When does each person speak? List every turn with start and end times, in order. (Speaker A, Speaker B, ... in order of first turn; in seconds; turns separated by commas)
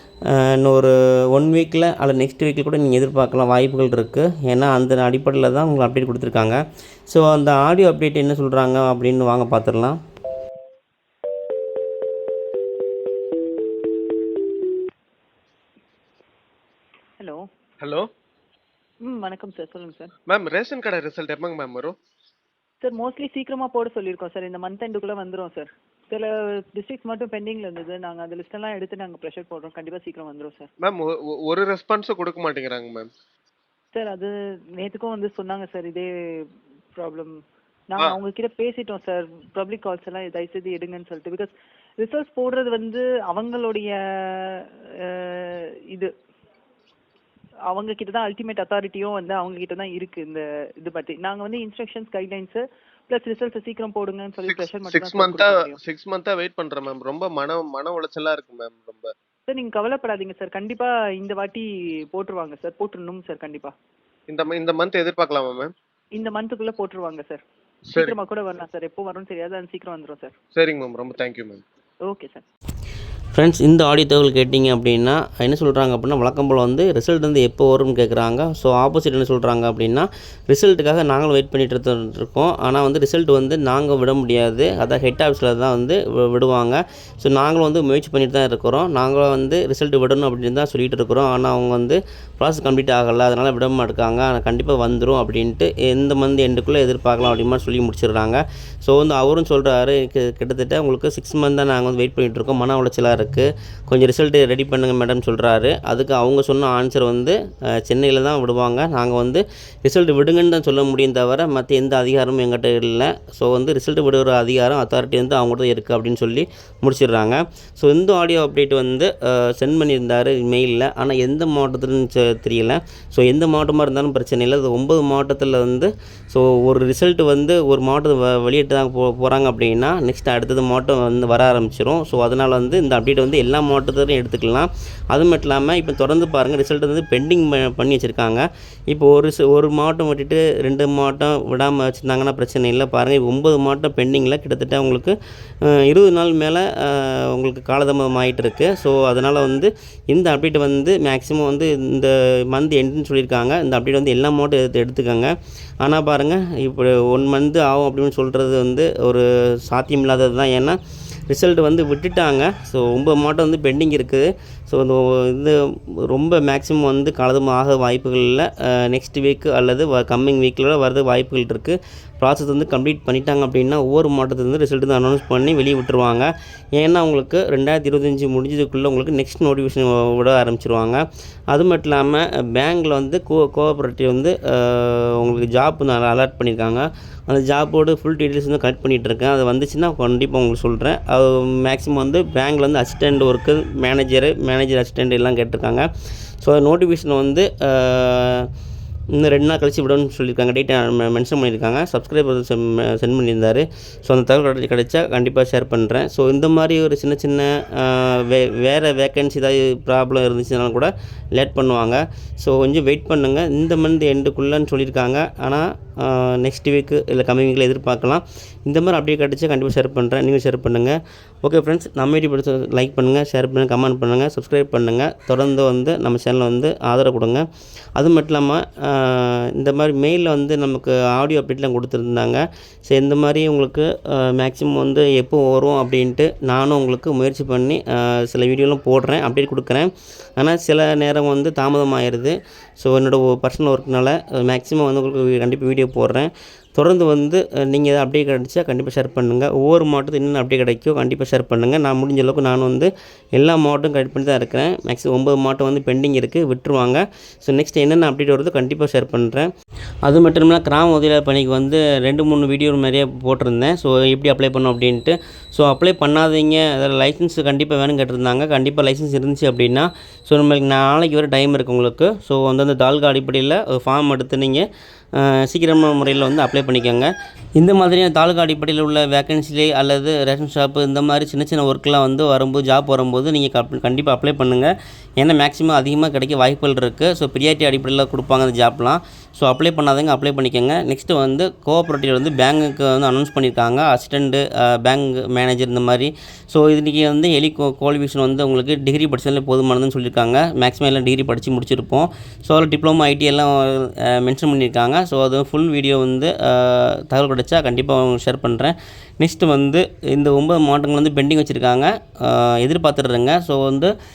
Speaker A: 0.3-10.0, Speaker B: 17.2-17.4, Speaker C: 17.8-18.1, Speaker B: 19.0-20.1, Speaker C: 20.3-21.9, Speaker B: 22.8-30.7, Speaker C: 30.8-33.1, Speaker B: 33.9-46.1, Speaker B: 47.7-55.8, Speaker C: 54.5-59.1, Speaker B: 59.5-63.7, Speaker C: 64.3-65.7, Speaker B: 66.1-67.4, Speaker C: 67.9-68.1, Speaker B: 67.9-70.3, Speaker C: 70.5-71.6, Speaker B: 72.1-72.4, Speaker A: 73.3-195.9, Speaker A: 196.4-198.5, Speaker A: 199.2-259.5, Speaker A: 260.0-313.9